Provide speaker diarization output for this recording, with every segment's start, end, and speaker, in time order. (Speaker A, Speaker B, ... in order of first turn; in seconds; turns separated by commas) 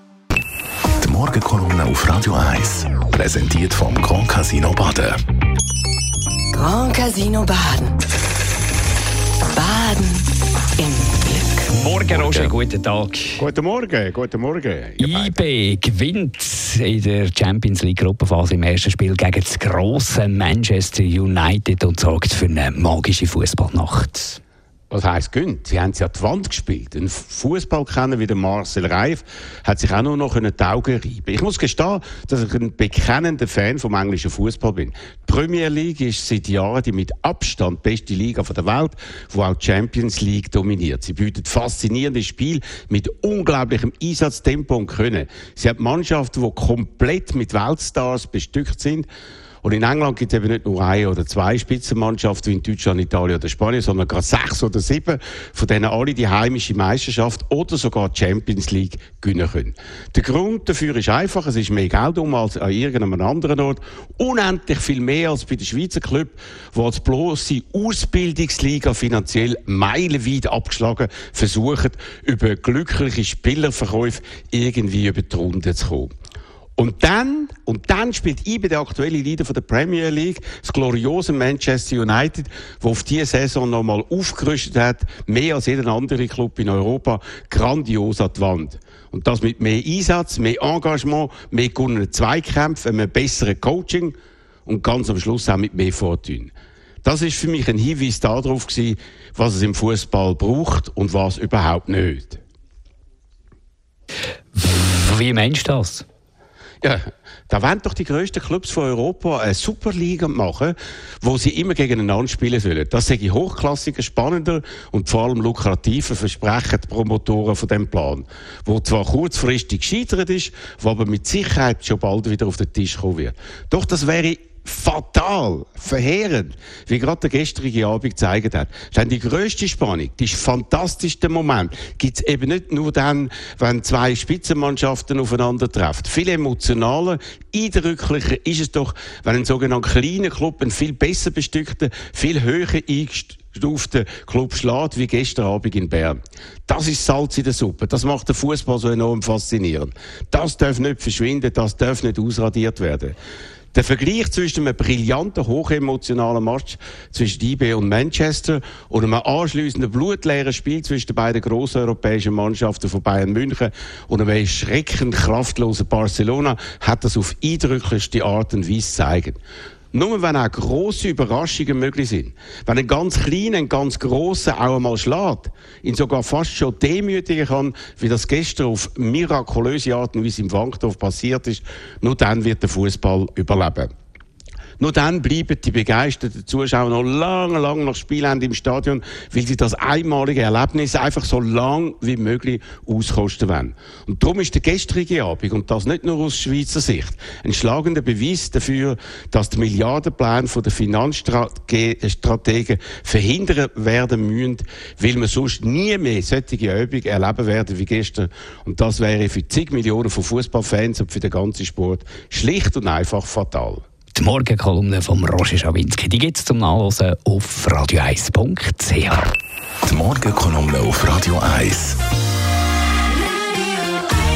Speaker A: 1.0-5.2, Speaker B: 6.5-8.0, Speaker B: 9.5-11.6, Speaker C: 11.6-13.4, Speaker D: 13.4-15.5, Speaker C: 15.0-24.4, Speaker D: 24.9-49.1, Speaker D: 49.6-76.1, Speaker D: 76.8-94.2, Speaker D: 94.7-96.5, Speaker D: 97.0-102.4, Speaker C: 104.6-106.0, Speaker D: 106.8-153.2, Speaker D: 153.7-169.4, Speaker D: 169.9-183.9, Speaker D: 184.8-213.8, Speaker C: 214.2-219.3, Speaker A: 219.8-222.0